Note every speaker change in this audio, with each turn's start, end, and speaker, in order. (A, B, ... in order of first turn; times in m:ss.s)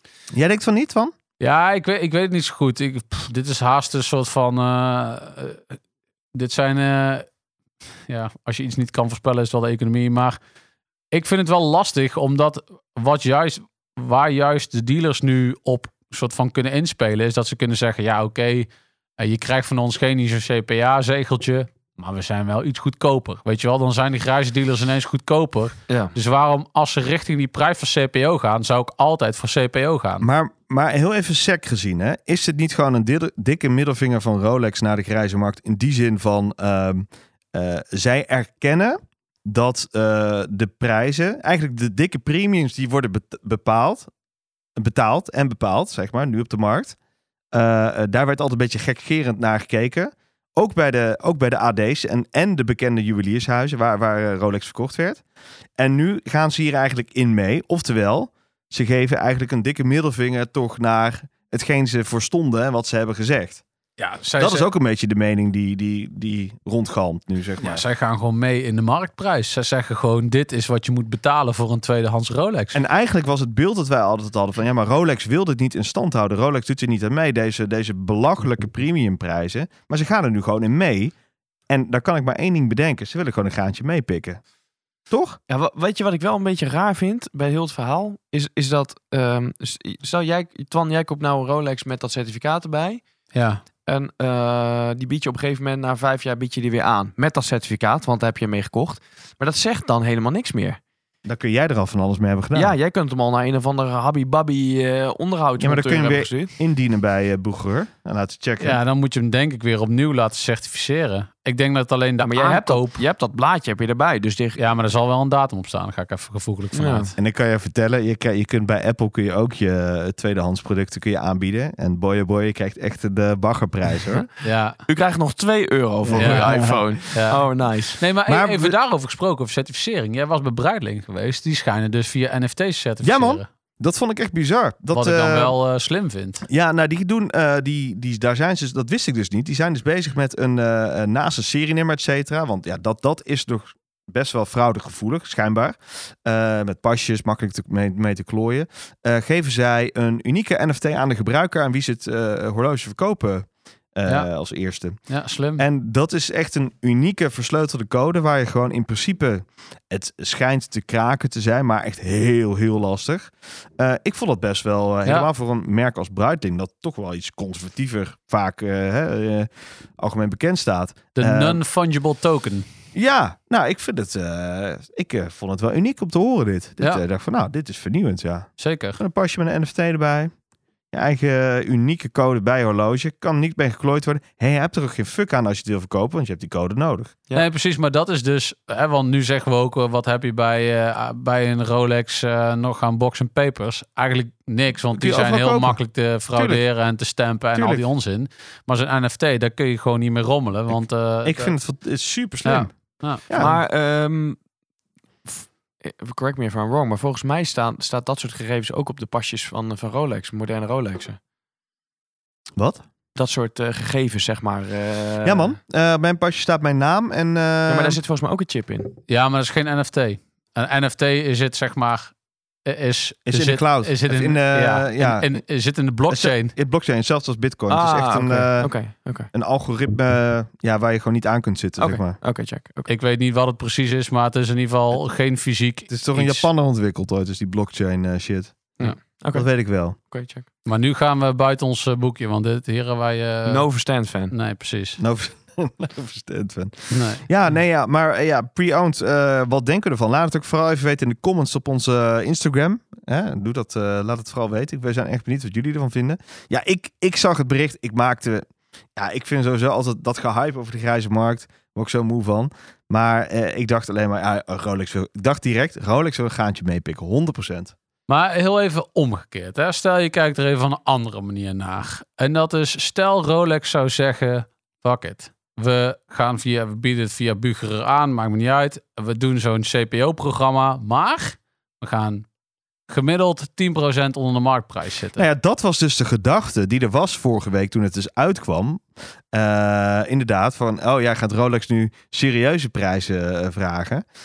0:00.3-0:01.1 A
0:01.4-0:05.8 B
0:06.3-0:07.3 B
0:08.1-0:10.4 B
0:11.1-0:30.3 B
0:25.9-0:26.1 C
0:30.2-0:44.1 A
0:44.8-0:47.0 A
0:47.5-0:55.2 A
0:55.8-1:03.6 A
1:04.0-1:04.7 B
1:04.4-1:07.8 A
1:07.6-1:12.8 B
1:12.7-1:21.1 A
1:21.7-1:24.4 A
1:25.1-1:25.4 A
1:25.5-1:33.0 C
1:33.3-1:33.6 B
1:33.9-1:40.8 C
1:41.2-1:42.8 A
1:42.6-1:46.5 C
1:45.6-1:48.8 A
1:48.6-1:53.0 B
1:52.2-1:54.6 C
1:54.6-1:57.2 B
1:56.7-1:57.1 C
1:57.2-2:04.3 A
2:04.4-2:04.8 B
2:04.9-2:08.0 C
2:06.0-2:06.8 A
2:06.1-2:07.4 B
2:08.0-2:13.5 B
2:08.3-2:08.8 A
2:13.0-2:15.6 A
2:14.9-2:16.4 B
2:16.5-2:35.0 A
2:35.1-2:35.6 B
2:35.6-2:51.6 A
2:51.2-2:52.7 B
2:52.9-3:00.3 A
2:58.6-2:59.0 B
3:00.9-3:07.2 A
3:07.3-3:21.6 B
3:14.9-3:15.8 A
3:16.4-3:16.6 A
3:17.6-3:17.8 A
3:20.7-3:22.7 A
3:22.4-3:23.5 B
3:23.3-3:23.6 A
3:23.3-3:24.4 C
3:25.3-3:31.2 C
3:32.6-3:32.8 A
3:33.2-3:35.6 C
3:35.2-3:38.0 A
3:37.7-3:39.0 C
3:39.1-3:42.1 B
3:42.6-3:46.5 B
3:43.3-3:45.4 A
3:46.1-3:48.7 A
3:47.7-3:49.3 C
3:49.3-3:52.2 A
3:51.8-3:52.9 C
3:52.9-3:56.5 B
3:55.9-4:00.0 A
3:58.8-4:00.4 C
4:00.6-4:03.7 B
4:03.5-4:04.3 C
4:04.3-4:05.0 B
4:05.0-4:27.7 A
4:06.9-4:07.2 B
4:28.1-4:42.3 B
4:42.9-4:45.2 B
4:45.2-4:54.0 A